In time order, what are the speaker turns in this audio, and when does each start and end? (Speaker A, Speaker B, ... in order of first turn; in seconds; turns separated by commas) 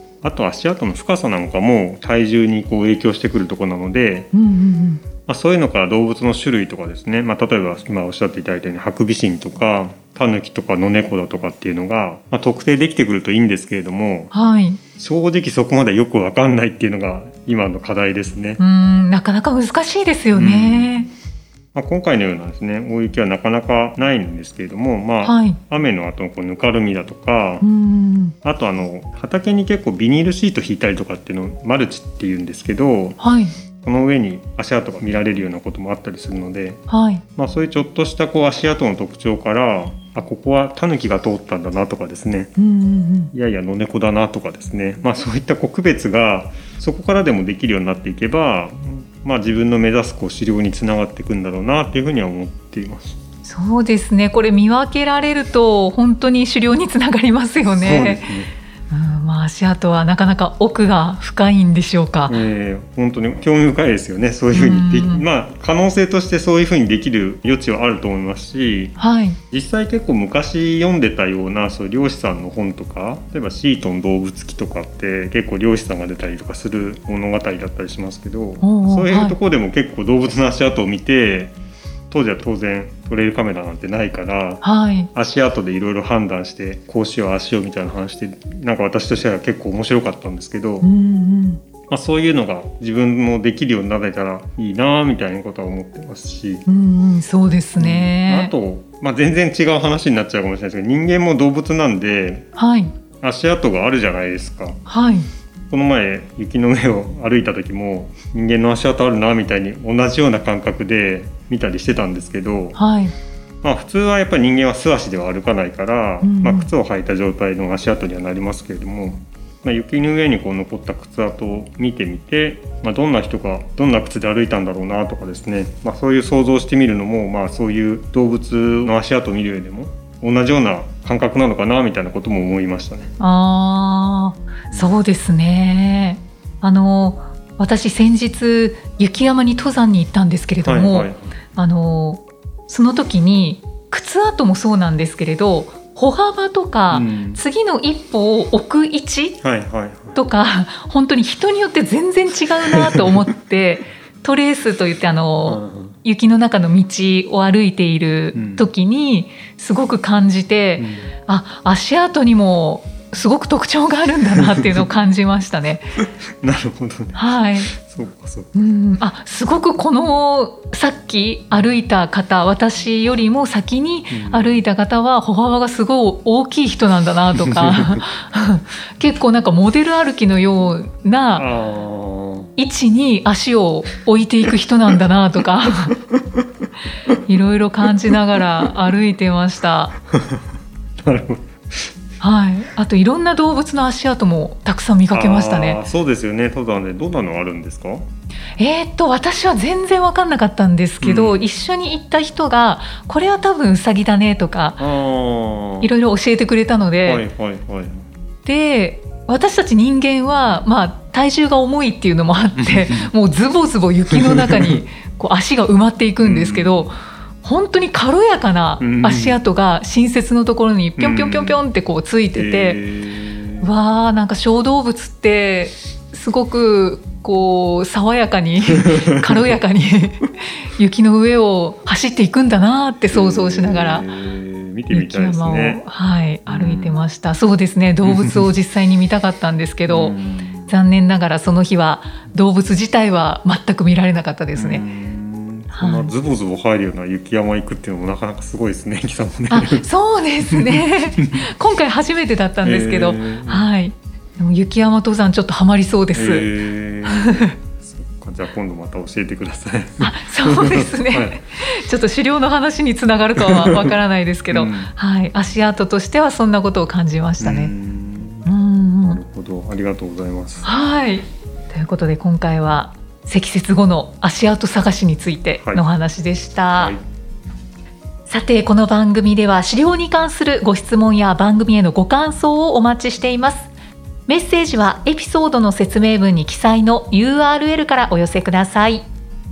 Speaker A: 0.2-4.3, Speaker B: 4.3-5.0, Speaker A: 5.3-14.3, Speaker B: 14.3-14.8, Speaker A: 15.0-18.6, Speaker B: 18.6-21.1, Speaker A: 20.3-20.9, Speaker A: 21.7-27.6, Speaker B: 25.2-25.6, Speaker B: 27.6-28.3, Speaker A: 28.4-33.2, Speaker B: 33.2-33.5, Speaker A: 33.8-36.8, Speaker B: 36.9-37.2, Speaker A: 37.4-42.5, Speaker B: 42.6-43.3, Speaker A: 43.3-53.2, Speaker B: 53.4-58.3, Speaker A: 57.7-58.5, Speaker B: 58.9-62.3, Speaker A: 62.3-68.9, Speaker B: 64.5-65.2, Speaker B: 69.0-69.4, Speaker A: 69.5-81.5, Speaker B: 78.6-79.3, Speaker A: 82.1-84.6, Speaker B: 84.6-85.1, Speaker A: 85.1-90.9, Speaker B: 90.8-91.6, Speaker A: 91.9-96.6, Speaker B: 96.7-98.5, Speaker A: 97.8-102.5, Speaker B: 102.5-102.9, Speaker A: 103.2-104.8, Speaker B: 104.8-105.3, Speaker A: 105.7-112.8, Speaker B: 112.7-113.1, Speaker A: 113.6-133.1, Speaker B: 116.2-116.7, Speaker B: 133.2-149.4, Speaker A: 134.7-134.9, Speaker A: 140.6-141.2, Speaker A: 146.9-147.4, Speaker A: 149.4-150.2, Speaker B: 150.1-165.9, Speaker A: 152.7-153.2, Speaker A: 155.4-155.9, Speaker A: 158.3-158.7, Speaker A: 160.8-161.1, Speaker A: 164.5-164.8, Speaker A: 166.4-168.5, Speaker B: 167.1-167.7, Speaker B: 168.5-181.5, Speaker A: 174.1-174.6, Speaker A: 177.4-178.0, Speaker A: 181.3-182.5, Speaker B: 182.6-186.0, Speaker B: 187.1-189.9, Speaker A: 191.0-191.8, Speaker B: 192.2-195.8, Speaker A: 195.1-198.0, Speaker B: 198.6-204.9, Speaker A: 201.0-201.4, Speaker A: 204.8-205.9, Speaker B: 205.8-207.2, Speaker A: 207.1-208.1, Speaker B: 208.4-222.8, Speaker A: 212.6-213.1, Speaker A: 214.1-214.6, Speaker A: 216.2-216.9, Speaker A: 218.8-219.4, Speaker A: 221.0-221.6, Speaker A: 222.3-223.7, Speaker B: 223.6-234.1, Speaker A: 228.8-229.5, Speaker A: 233.1-235.8, Speaker B: 234.9-240.1, Speaker A: 236.4-237.0, Speaker A: 238.0-238.5, Speaker A: 239.9-240.7, Speaker B: 240.7-244.8, Speaker A: 244.5-249.9, Speaker B: 245.7-246.1, Speaker B: 249.5-256.5, Speaker A: 250.4-251.5, Speaker A: 252.6-253.7, Speaker A: 256.1-261.4, Speaker B: 257.1-257.5, Speaker B: 260.0-267.7, Speaker A: 263.4-263.9, Speaker A: 264.5-264.9, Speaker A: 267.4-268.5, Speaker B: 268.4-269.2, Speaker A: 269.0-270.7, Speaker B: 270.6-276.9, Speaker B: 278.3-283.7, Speaker B: 284.3-289.1